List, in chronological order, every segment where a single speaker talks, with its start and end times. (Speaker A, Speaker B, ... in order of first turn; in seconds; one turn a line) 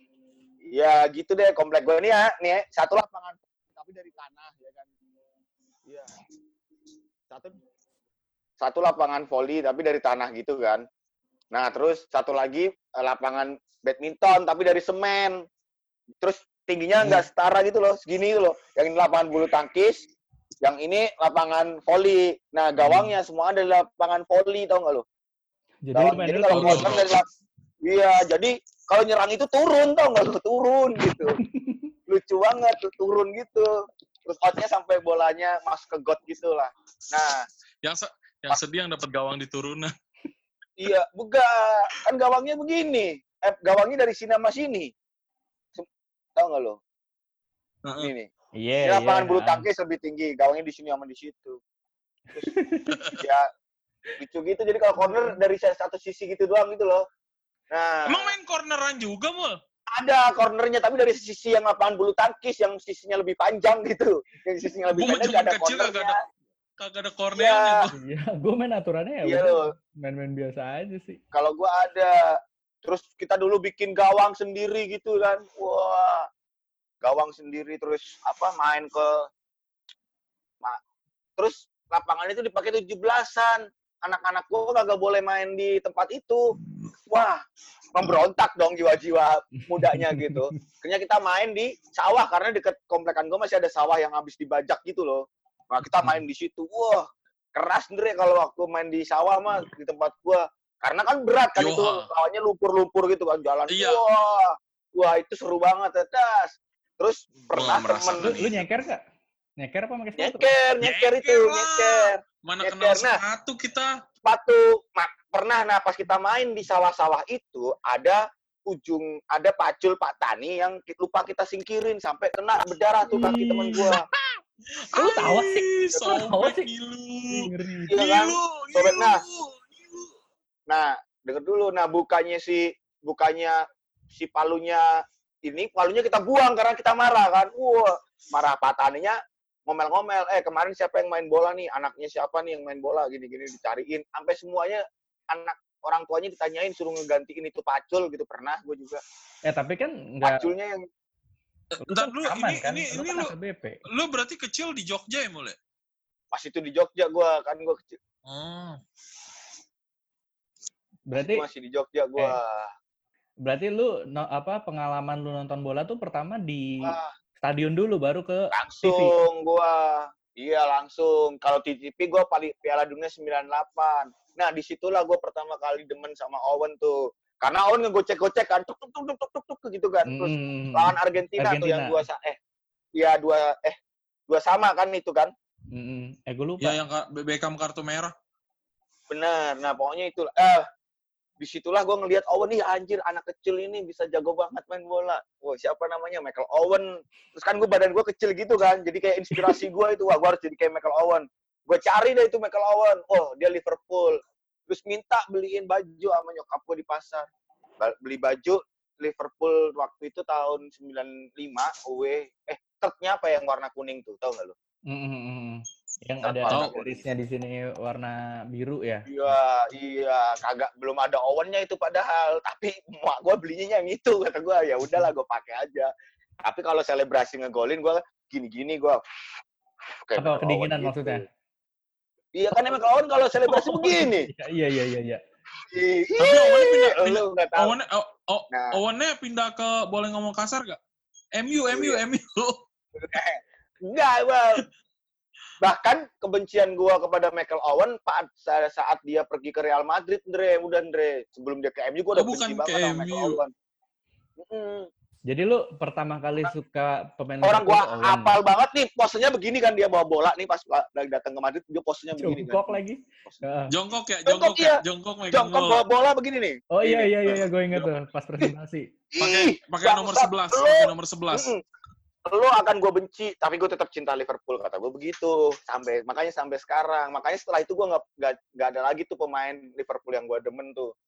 Speaker A: 0.7-4.9
Speaker A: 5.8-6.1
Speaker A: 7.3-7.5
Speaker A: 8.6-10.8
Speaker A: 11.5-15.4
Speaker A: 16.2-20.0
Speaker A: 20.6-25.0
Speaker B: 22.8-23.1
Speaker B: 25.8-27.0
Speaker A: 25.9-27.2
Speaker C: 26.5-27.1
Speaker A: 27.8-31.4
Speaker B: 31.1-31.9
Speaker A: 32.1-33.7
Speaker A: 34.2-37.5
Speaker C: 37.8-39.9
Speaker A: 40.8-44.9
Speaker A: 45.7-46.8
Speaker C: 47.8-48.1
Speaker A: 48.0-48.3
Speaker B: 48.6-49.6
Speaker A: 48.8-51.6
Speaker B: 52.3-53.0
Speaker C: 52.9-53.2
Speaker A: 53.2-53.5
Speaker A: 54.2-57.0
Speaker A: 57.7-58.3
Speaker C: 58.1-59.6
Speaker A: 59.9-66.2
Speaker C: 64.9-66.1
Speaker C: 66.8-68.0
Speaker A: 67.3-67.9
Speaker B: 68.0-71.2
Speaker A: 69.2-69.6
Speaker A: 71.3-72.2
Speaker A: 72.8-76.2
Speaker A: 77.0-79.2
Speaker A: 81.4-86.4
Speaker A: 87.1-87.4
Speaker A: 87.9-108.3
Speaker B: 89.7-90.5
Speaker C: 101.6-102.1
Speaker C: 103.7-104.0
Speaker C: 107.5-108.6
Speaker B: 108.2-109.0
Speaker B: 109.6-110.5
Speaker A: 110.2-113.2
Speaker C: 110.8-113.9
Speaker A: 114.2-124.0
Speaker B: 123.1-123.9
Speaker C: 123.8-124.0
Speaker C: 124.9-130.1
Speaker B: 124.9-126.7
Speaker B: 127.3-127.9
Speaker A: 127.9-129.2
Speaker A: 130.7-134.9
Speaker A: 135.4-139.2
Speaker A: 139.7-149.0
Speaker B: 149.5-150.4
Speaker A: 150.2-150.8
Speaker C: 151.7-153.3
Speaker B: 151.8-153.8
Speaker C: 153.8-155.6
Speaker A: 156.3-158.0
Speaker C: 158.2-158.8
Speaker B: 161.1-161.4
Speaker A: 161.2-162.7
Speaker B: 163.4-169.1
Speaker A: 166.8-167.1
Speaker A: 168.5-182.4
Speaker B: 180.1-182.0
Speaker A: 182.9-183.8
Speaker A: 184.3-185.3
Speaker B: 185.7-186.8
Speaker C: 186.6-188.1
Speaker A: 189.1-190.6
Speaker A: 191.4-207.3
Speaker A: 207.8-214.5
Speaker B: 214.9-219.1
Speaker A: 216.2-217.1
Speaker A: 219.1-225.9
Speaker A: 226.4-229.0
Speaker A: 230.0-231.2
Speaker B: 230.2-231.2
Speaker A: 232.3-234.3
Speaker B: 233.4-235.2
Speaker A: 235.7-237.8
Speaker C: 236.2-240.8
Speaker C: 241.4-242.6
Speaker A: 241.7-242.0
Speaker A: 242.9-244.6
Speaker A: 245.6-253.5
Speaker C: 252.1-253.4
Speaker A: 254.4-254.9
Speaker B: 255.3-258.4
Speaker A: 257.4-263.4
Speaker B: 262.2-263.7
Speaker C: 263.7-265.8
Speaker A: 264.2-267.9
Speaker B: 266.7-268.9
Speaker A: 269.1-271.6
Speaker C: 269.2-271.5
Speaker A: 272.3-280.9